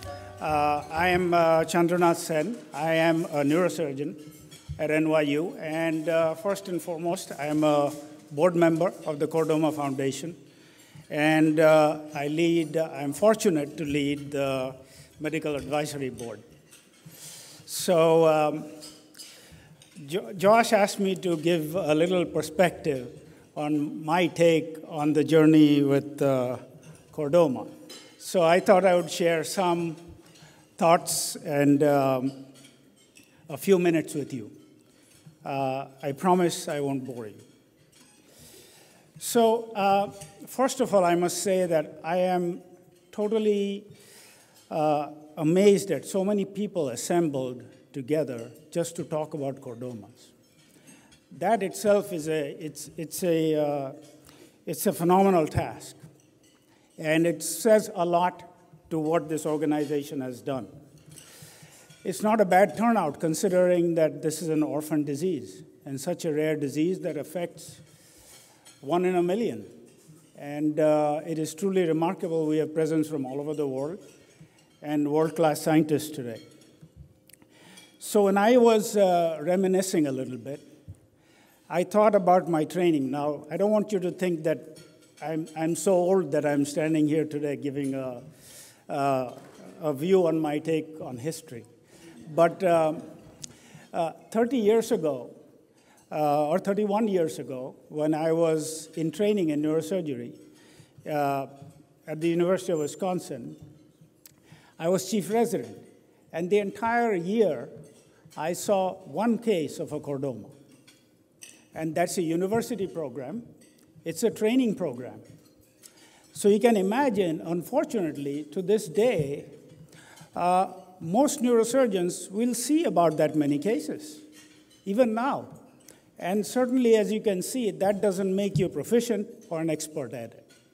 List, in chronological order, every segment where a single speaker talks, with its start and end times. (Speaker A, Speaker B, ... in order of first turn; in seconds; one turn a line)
Speaker A: 0.4-4.2
Speaker A: 4.8-10.4
Speaker A: 11.1-16.4
Speaker A: 17.7-18.7
Speaker A: 20.0-30.0
Speaker A: 30.8-32.4
Speaker A: 33.5-34.5
Speaker A: 35.4-37.4
Speaker A: 39.2-43.9
Speaker A: 44.7-50.3
Speaker A: 51.3-53.9
Speaker A: 54.6-56.0
Speaker A: 57.0-60.7
Speaker A: 62.0-67.8
Speaker A: 68.8-69.7
Speaker A: 70.3-74.0
Speaker A: 74.8-76.4
Speaker A: 78.0-80.6
Speaker A: 81.7-88.2
Speaker A: 88.9-91.7
Speaker A: 92.2-93.1
Speaker A: 93.9-95.3
Speaker A: 96.1-100.4
Speaker A: 101.0-101.5
Speaker A: 102.0-103.6
Speaker A: 104.8-107.7
Speaker A: 108.3-110.5
Speaker A: 111.7-113.5
Speaker A: 114.0-115.2
Speaker A: 116.3-119.5
Speaker A: 120.3-124.2
Speaker A: 124.8-125.5
Speaker A: 126.2-130.5